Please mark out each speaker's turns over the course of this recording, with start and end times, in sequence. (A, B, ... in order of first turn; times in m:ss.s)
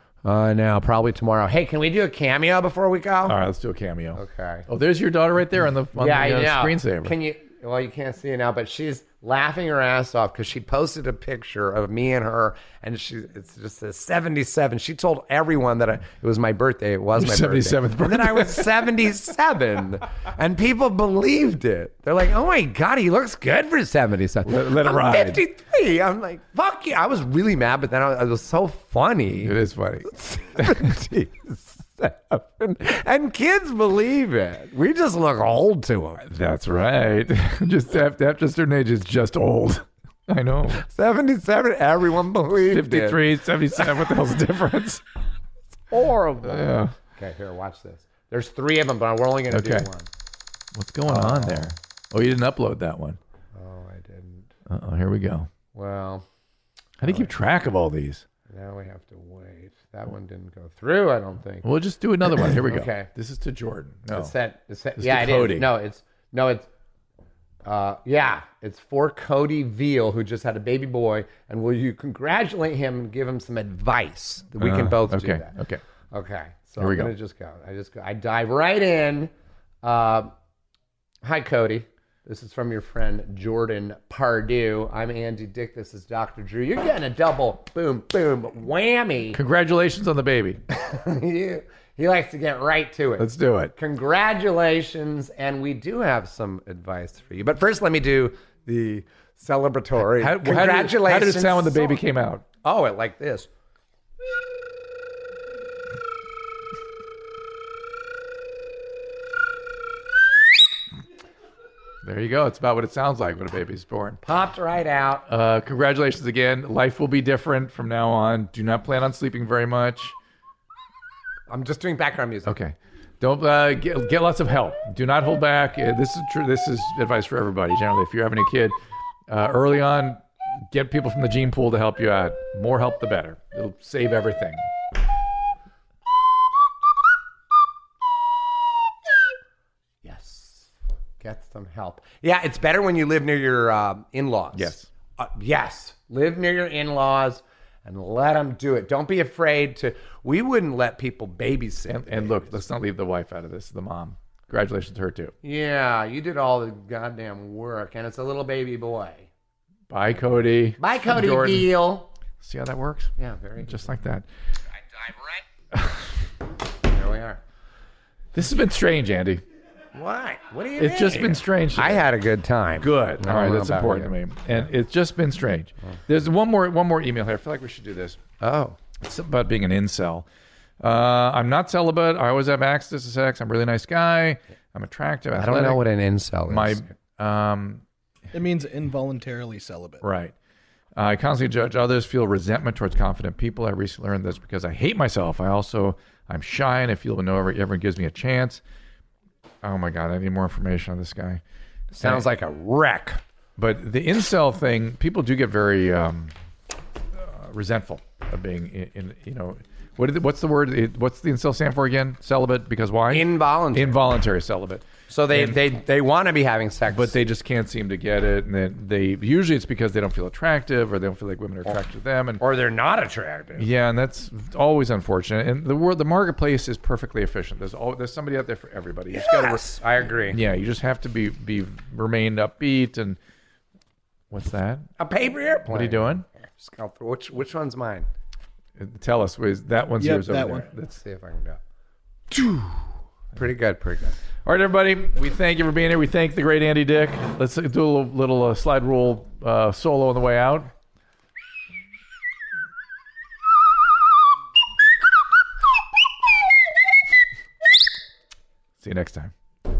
0:00.2-0:03.4 A
0:03.2-0:07.2 B
0:04.1-0:04.6 A
0:05.9-0:29.5 A
0:17.2-0:18.8 B
0:24.4-0:25.4 B
0:29.4-0:30.9 B
0:30.1-0:36.2 A
0:36.2-0:40.8 B
0:40.8-0:43.2 A
0:42.7-0:45.0 B
0:43.8-0:44.0 A
0:45.9-0:50.1 A
0:46.4-0:46.9 B
0:49.5-0:49.9 B
0:50.7-0:53.2 B
0:51.1-0:51.7 A
0:53.5-0:54.5 A
0:54.7-0:55.5 B
0:55.7-0:56.2 A
0:57.0-0:58.2 B
0:57.0-0:57.3 A
0:58.5-1:01.7 A
1:01.6-1:04.3 B
1:02.2-1:03.1 A
1:04.1-1:06.7 A
1:05.0-1:05.7 B
1:07.6-1:15.5 A
1:14.6-1:15.8 B
1:16.1-1:20.3 A
1:16.8-1:17.1 B
1:21.2-1:29.4 A
1:29.3-1:30.6 B
1:30.8-1:42.0 A
1:33.2-1:33.7 B
1:40.1-1:42.5 B
1:42.6-1:43.5 A
1:52.0-1:54.2 B
1:54.2-1:55.2 A
1:55.3-2:00.1 B
2:01.5-2:02.6 A
2:02.4-2:08.8 B
2:09.3-2:14.7 B
2:20.0-2:32.5 A
2:24.5-2:24.9 B
2:31.9-2:35.3 B
2:35.4-2:39.3 A
2:39.9-2:41.7 B
2:40.8-2:42.1 A
2:42.4-2:44.2 B
2:43.2-2:43.9 A
2:45.0-2:45.4 A
2:46.8-2:47.4 A
2:48.3-2:49.4 B
2:49.9-2:54.1 A
2:50.8-2:52.1 B
2:52.8-2:58.2 B
2:58.4-2:58.8 A
2:59.0-3:00.2 B
3:00.8-3:05.8 B
3:05.3-3:06.9 A
3:06.5-3:07.8 B
3:08.3-3:10.0 C
3:10.0-3:10.3 B
3:11.0-3:18.6 B
3:19.6-3:21.4 B
3:21.9-3:23.2 A
3:23.6-3:26.3 B
3:27.2-3:35.6 B
3:33.1-3:34.0 A
3:35.1-3:37.2 A
3:36.9-3:42.4 B
3:42.4-3:43.7 A
3:43.6-3:49.7 B
3:49.1-3:50.4 A
3:50.3-3:53.2 B
3:54.3-3:54.9 B
3:55.0-3:58.1 A
3:55.7-3:56.2 B
3:58.8-4:00.9 B
4:00.0-4:00.7 C
4:00.7-4:01.6 A
4:02.3-4:02.8 A
4:03.3-4:04.2 A
4:04.4-4:10.7 B
4:18.8-4:19.3 B